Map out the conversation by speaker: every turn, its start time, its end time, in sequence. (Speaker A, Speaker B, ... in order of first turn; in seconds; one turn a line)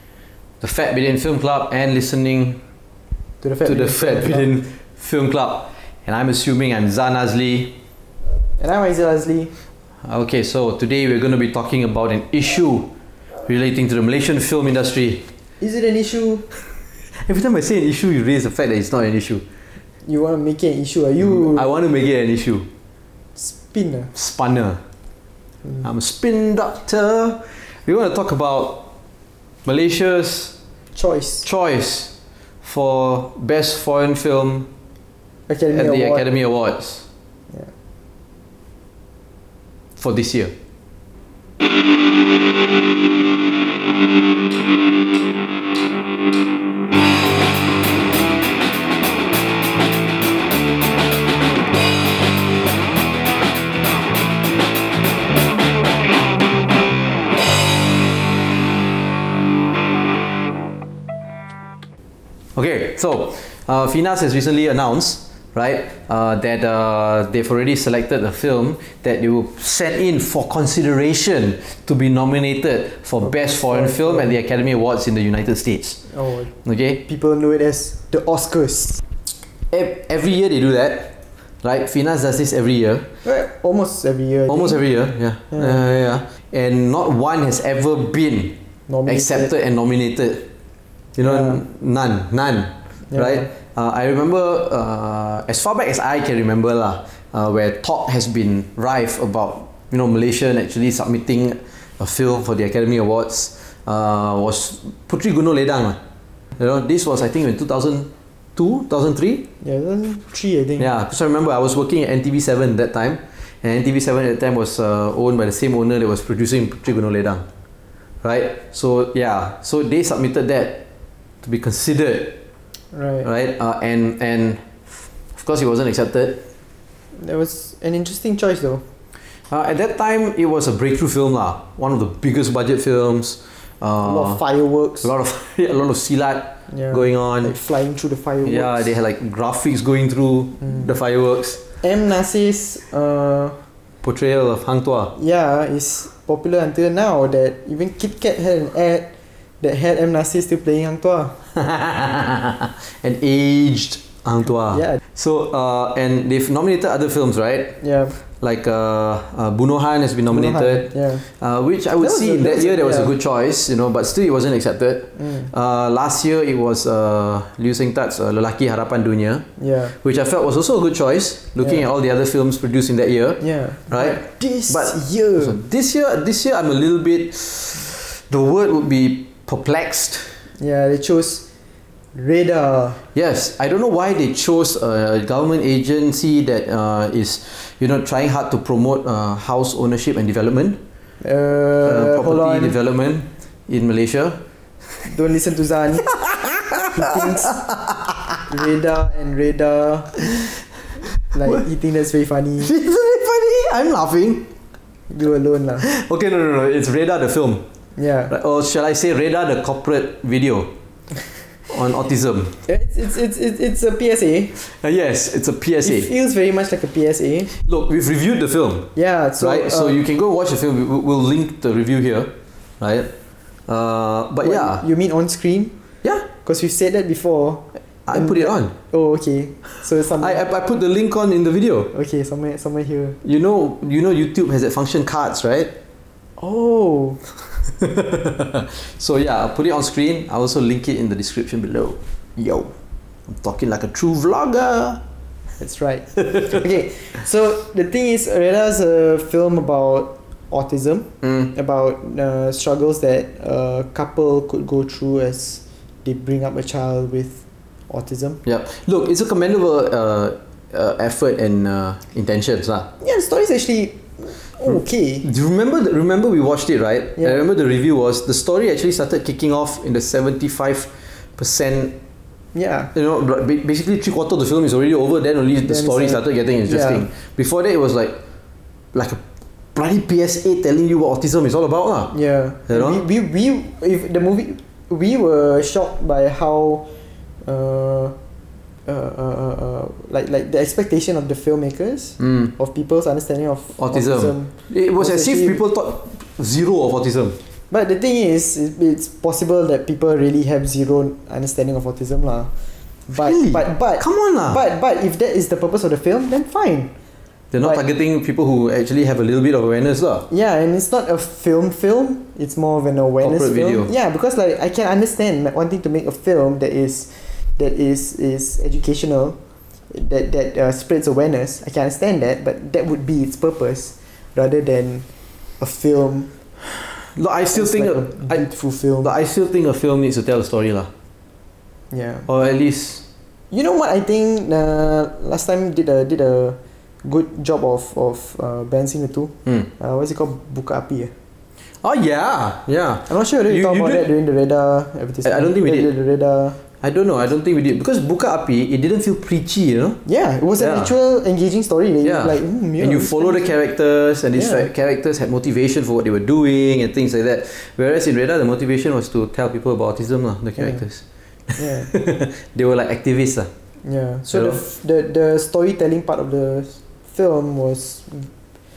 Speaker A: 0.6-2.6
Speaker B: 3.4-4.5
Speaker A: 3.6-7.7
Speaker B: 8.6-9.5
Speaker A: 10.0-12.9
Speaker A: 13.4-15.2
Speaker B: 15.6-16.4
Speaker A: 17.2-19.4
Speaker B: 20.0-21.7
Speaker A: 21.2-22.7
Speaker B: 23.4-24.1
Speaker A: 24.1-24.8
Speaker A: 25.8-28.9
Speaker A: 29.6-30.5
Speaker B: 30.9-31.4
Speaker A: 31.4-34.7
Speaker B: 35.5-36.3
Speaker A: 35.7-37.0
Speaker A: 40.0-40.5
Speaker A: 62.5-76.0
Speaker B: 73.2-74.3
Speaker B: 76.1-76.5
Speaker A: 76.6-77.0
Speaker B: 77.1-79.0
Speaker A: 79.7-83.1
Speaker B: 83.2-84.8
Speaker A: 84.5-90.5
Speaker B: 88.9-89.5
Speaker A: 91.2-106.0
Speaker B: 91.2-91.6
Speaker B: 93.1-93.5
Speaker A: 106.6-109.5
Speaker B: 109.6-110.9
Speaker A: 110.8-117.4
Speaker A: 118.2-120.8
Speaker A: 121.4-122.4
Speaker B: 122.9-123.3
Speaker A: 123.2-124.7
Speaker A: 125.3-126.4
Speaker B: 127.2-128.8
Speaker A: 129.5-134.4
Speaker B: 134.0-135.1
Speaker A: 135.0-137.5
Speaker B: 136.7-138.9
Speaker A: 138.4-141.6
Speaker B: 141.8-143.6
Speaker A: 144.0-145.1
Speaker B: 145.1-151.4
Speaker A: 151.6-157.8
Speaker B: 157.8-158.2
Speaker A: 158.3-180.4
Speaker B: 160.3-161.2
Speaker B: 162.0-163.2
Speaker B: 165.2-165.5
Speaker B: 169.6-169.9
Speaker B: 173.4-175.6
Speaker B: 180.6-181.5
Speaker B: 182.1-183.0
Speaker A: 183.1-190.8
Speaker B: 191.2-192.8
Speaker A: 191.8-194.4
Speaker B: 195.0-196.1
Speaker A: 196.2-198.1
Speaker B: 196.9-197.7
Speaker B: 198.5-200.2
Speaker B: 201.3-202.7
Speaker A: 202.6-204.5
Speaker B: 205.1-205.9
Speaker A: 205.8-207.6
Speaker B: 207.9-208.3
Speaker A: 208.3-210.7
Speaker A: 211.7-212.6
Speaker B: 212.7-214.5
Speaker A: 214.6-216.1
Speaker B: 215.8-217.5
Speaker A: 217.5-223.1
Speaker B: 218.9-220.0
Speaker A: 223.7-224.8
Speaker B: 224.4-225.7
Speaker B: 226.4-230.4
Speaker A: 228.1-228.7
Speaker A: 230.2-231.9
Speaker B: 231.9-233.2
Speaker A: 233.2-235.7
Speaker B: 236.4-237.2
Speaker A: 237.8-242.7
Speaker A: 243.3-245.0
Speaker B: 245.6-258.4
Speaker A: 251.2-251.5
Speaker A: 258.4-262.9
Speaker B: 263.0-265.2
Speaker A: 265.2-271.9
Speaker B: 272.5-272.9
Speaker A: 272.9-278.2
Speaker B: 275.6-277.1
Speaker A: 278.9-279.2
Speaker A: 279.7-282.1
Speaker B: 282.1-286.9
Speaker A: 282.7-283.0
Speaker B: 287.4-288.1
Speaker B: 288.9-295.6
Speaker A: 292.2-292.5
Speaker A: 293.8-297.4
Speaker B: 297.7-302.5
Speaker B: 303.1-306.9
Speaker A: 303.1-304.6
Speaker A: 307.5-310.3
Speaker B: 310.3-319.4
Speaker A: 313.2-313.9
Speaker B: 319.9-325.1
Speaker B: 325.6-326.3
Speaker A: 327.1-328.4
Speaker B: 327.5-329.1
Speaker A: 329.0-330.9
Speaker B: 331.9-332.3
Speaker A: 332.3-333.0
Speaker B: 333.5-341.1
Speaker A: 341.8-344.1
Speaker B: 343.1-346.6
Speaker A: 345.2-345.9
Speaker A: 346.8-350.0
Speaker B: 350.0-353.5
Speaker A: 350.6-350.9
Speaker A: 352.0-363.5
Speaker B: 354.3-354.7
Speaker B: 360.6-360.8
Speaker B: 361.6-361.9
Speaker B: 363.8-368.3
Speaker A: 364.3-364.6